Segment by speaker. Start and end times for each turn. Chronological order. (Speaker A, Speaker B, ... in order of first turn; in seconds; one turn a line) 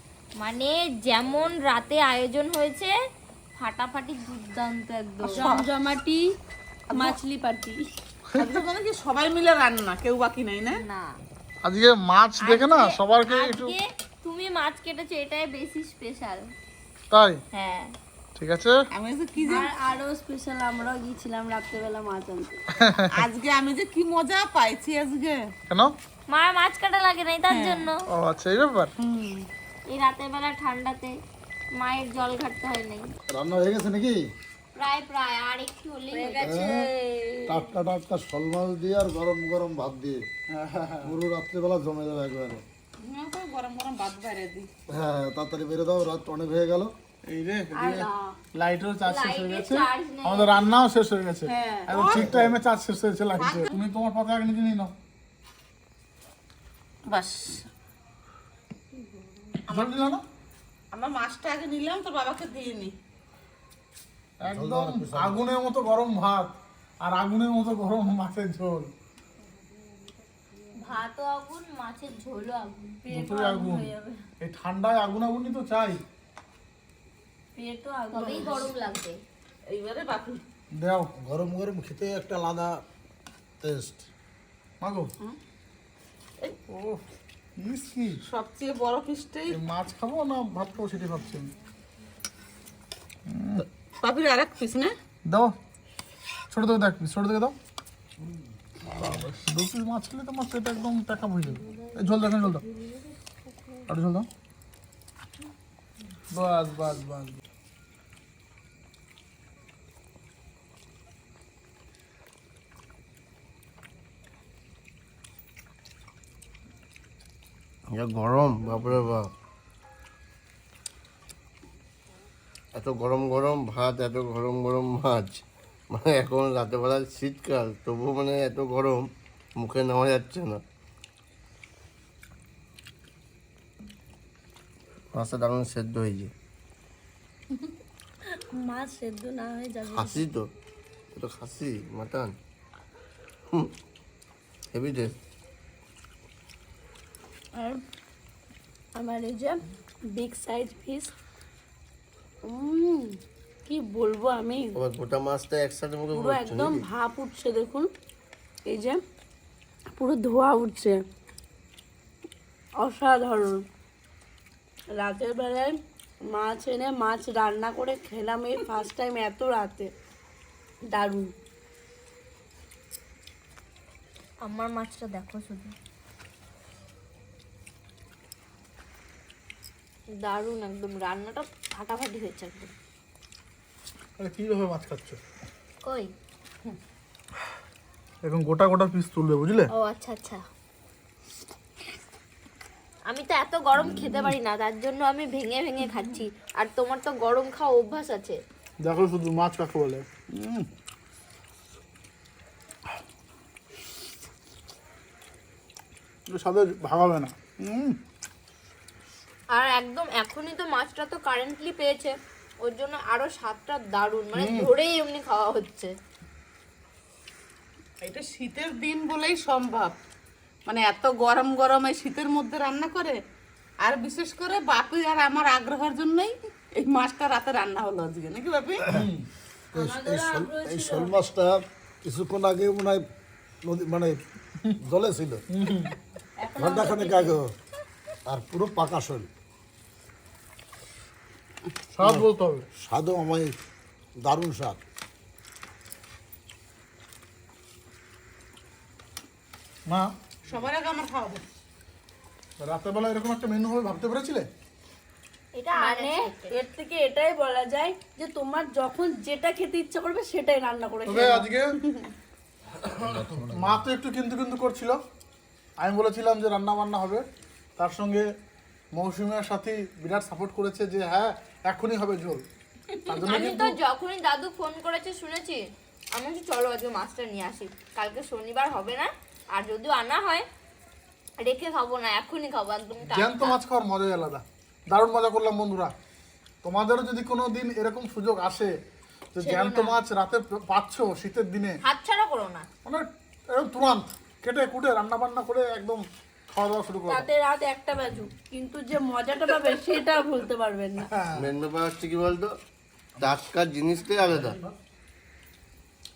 Speaker A: 0.4-2.9
Speaker A: 3.6-5.5
Speaker B: 5.2-6.2
Speaker C: 5.3-5.7
Speaker C: 6.9-7.2
Speaker B: 6.9-7.8
Speaker C: 8.3-10.8
Speaker A: 10.8-11.1
Speaker D: 11.6-13.7
Speaker A: 12.4-16.5
Speaker D: 17.1-17.4
Speaker A: 17.5-17.9
Speaker D: 18.4-18.8
Speaker C: 18.9-19.7
Speaker B: 19.4-22.6
Speaker D: 22.7-23.1
Speaker C: 23.1-25.5
Speaker D: 25.7-25.9
Speaker A: 26.3-28.1
Speaker C: 27.5-27.9
Speaker D: 28.1-28.9
Speaker C: 29.0-29.5
Speaker A: 29.9-31.2
Speaker A: 31.8-33.0
Speaker E: 33.3-34.2
Speaker A: 34.8-36.6
Speaker B: 36.1-37.6
Speaker E: 36.4-36.8
Speaker E: 37.5-40.2
Speaker D: 40.5-41.1
Speaker E: 41.0-42.6
Speaker C: 43.0-44.7
Speaker E: 44.9-46.9
Speaker D: 47.2-54.9
Speaker B: 47.7-48.4
Speaker A: 49.0-50.7
Speaker B: 51.5-51.9
Speaker C: 51.9-52.2
Speaker E: 52.1-52.6
Speaker C: 53.4-53.8
Speaker C: 57.1-57.7
Speaker D: 59.7-60.2
Speaker C: 60.9-62.9
Speaker D: 64.4-68.9
Speaker E: 64.5-65.5
Speaker A: 70.8-73.5
Speaker B: 73.1-74.0
Speaker D: 73.1-73.9
Speaker D: 74.4-76.0
Speaker B: 77.6-78.7
Speaker A: 78.1-79.2
Speaker C: 79.7-80.4
Speaker D: 80.7-81.1
Speaker E: 81.2-82.7
Speaker E: 83.6-84.0
Speaker D: 84.8-85.1
Speaker D: 86.7-87.0
Speaker D: 87.6-88.2
Speaker C: 88.3-89.6
Speaker D: 89.5-91.5
Speaker D: 93.3-93.6
Speaker C: 94.0-94.9
Speaker D: 95.3-95.5
Speaker D: 96.5-97.5
Speaker D: 98.9-102.6
Speaker B: 101.7-103.8
Speaker D: 103.9-104.3
Speaker D: 106.3-107.4
Speaker F: 117.9-119.3
Speaker F: 122.7-129.1
Speaker F: 129.6-130.6
Speaker F: 135.1-136.3
Speaker B: 138.3-140.2
Speaker F: 139.9-140.5
Speaker F: 141.1-142.3
Speaker F: 144.7-145.2
Speaker B: 147.6-147.8
Speaker B: 148.9-149.6
Speaker B: 150.1-151.1
Speaker B: 152.4-154.8
Speaker F: 154.8-156.8
Speaker B: 156.1-157.9
Speaker B: 158.7-159.0
Speaker B: 159.9-161.0
Speaker B: 162.8-163.6
Speaker B: 164.9-165.8
Speaker B: 166.3-169.9
Speaker B: 170.9-171.3
Speaker A: 174.4-175.7
Speaker A: 180.2-182.7
Speaker D: 184.2-185.2
Speaker A: 185.8-186.1
Speaker D: 188.2-189.7
Speaker A: 189.7-190.4
Speaker A: 193.1-198.4
Speaker D: 193.8-194.3
Speaker D: 198.8-200.7
Speaker D: 206.3-208.0
Speaker A: 209.5-215.9
Speaker D: 214.3-214.7
Speaker C: 218.0-219.9
Speaker C: 220.7-223.2
Speaker C: 223.8-228.8
Speaker D: 228.9-229.2
Speaker B: 229.7-231.1
Speaker E: 229.7-233.0
Speaker E: 233.6-234.2
Speaker E: 234.8-235.4
Speaker D: 235.5-235.9
Speaker B: 236.4-237.4
Speaker E: 236.6-237.5
Speaker E: 238.3-239.3
Speaker D: 241.9-242.7
Speaker E: 242.8-243.5
Speaker E: 244.2-244.8
Speaker C: 250.4-251.4
Speaker D: 252.6-254.5
Speaker A: 255.6-256.6
Speaker B: 255.7-262.1
Speaker D: 261.0-261.7
Speaker E: 262.8-263.8
Speaker D: 263.1-265.0
Speaker D: 265.8-267.2
Speaker D: 267.8-268.3
Speaker D: 268.9-272.4
Speaker D: 273.1-273.8
Speaker A: 273.2-280.4
Speaker A: 281.4-283.6
Speaker D: 283.1-285.9
Speaker D: 286.6-288.8
Speaker D: 289.3-291.8
Speaker B: 289.4-290.0
Speaker A: 291.8-292.6
Speaker D: 292.8-297.3
Speaker B: 297.1-301.1
Speaker D: 301.1-301.5
Speaker F: 301.4-302.5
Speaker F: 303.2-304.6
Speaker D: 304.3-304.7